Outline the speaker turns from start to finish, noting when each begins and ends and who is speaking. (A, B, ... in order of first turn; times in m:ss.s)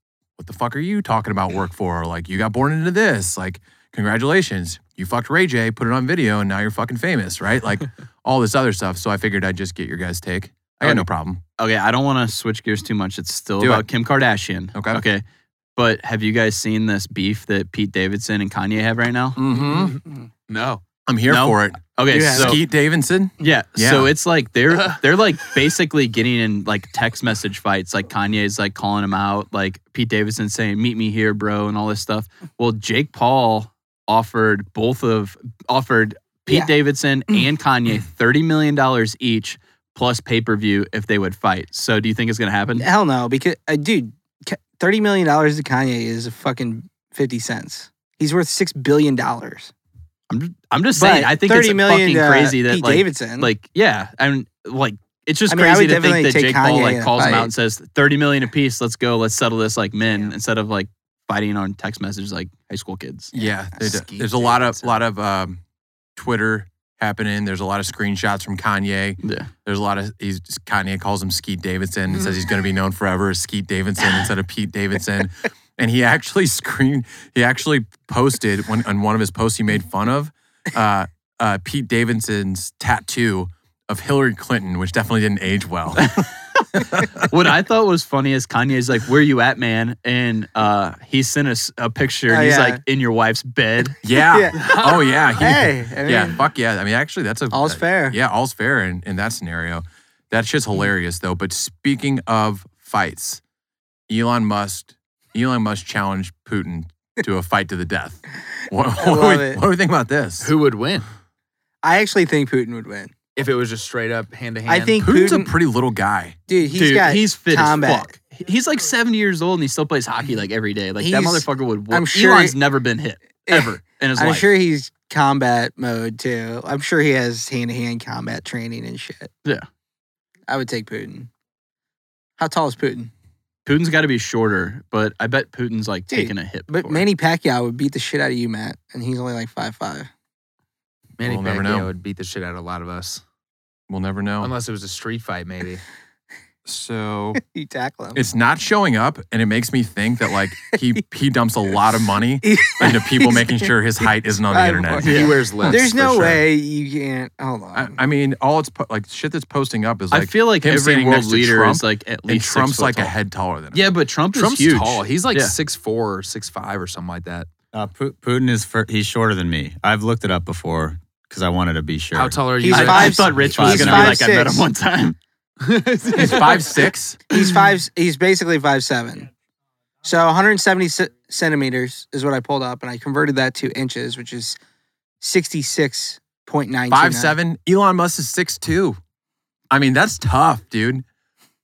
0:00.4-0:11.4 A
0:10.8-0:15.2 B
0:13.6-0:13.9 A
0:14.7-0:15.0 A
0:15.8-0:19.4 B
0:19.4-0:20.0 A
0:19.6-0:20.8 C
0:21.1-0:24.1 A
0:21.3-0:22.6 B
0:22.1-0:22.6 D
0:23.4-0:42.9 B
0:42.8-0:49.7 D
0:50.3-1:03.3 B
0:51.0-0:53.5 D
0:55.5-0:57.5 D
1:03.3-1:05.6 A
1:03.8-1:05.0 C
1:06.2-1:27.3 A
1:09.2-1:09.5 B
1:26.0-1:26.3 B
1:27.2-1:34.0 B
1:32.3-1:32.8 D
1:34.0-1:43.4 A
1:34.3-1:34.7 D
1:35.4-1:36.4 D
1:37.5-1:38.2 D
1:44.1-1:50.5 A
1:49.0-1:49.6 D
1:50.4-1:51.1 C
1:51.8-1:53.1 D
1:53.4-1:55.0 C
1:54.7-1:55.5 D
1:55.0-1:56.4 A
1:56.5-1:58.1 D
1:56.7-2:04.5 B
2:01.0-2:02.6 D
2:03.5-2:09.3 D
2:10.5-2:11.3 D
2:12.4-2:13.1 D
2:13.6-2:17.0 B
2:16.1-2:20.1 D
2:21.2-2:23.2 C
2:21.2-2:21.9 A
2:23.9-2:24.5 A
2:24.4-2:25.8 C
2:26.7-2:27.4 A
2:27.4-2:28.2 D
2:28.1-2:36.4 A
2:32.4-2:33.7 D
2:34.5-2:38.0 D
2:35.0-2:35.4 B
2:35.0-2:36.0 C
2:37.7-2:43.9 A
2:40.1-2:43.1 B
2:43.7-2:45.6 B
2:44.3-2:47.5 C
2:47.7-2:52.5 E
2:52.1-2:54.2 C
2:52.6-2:54.7 D
2:52.7-2:55.2 B
2:55.6-2:56.8 C
2:56.1-2:57.2 A
2:57.3-2:59.3 D
3:00.0-3:04.6 D
3:05.2-3:07.3 D
3:06.9-3:09.0 A
3:09.7-3:11.0 A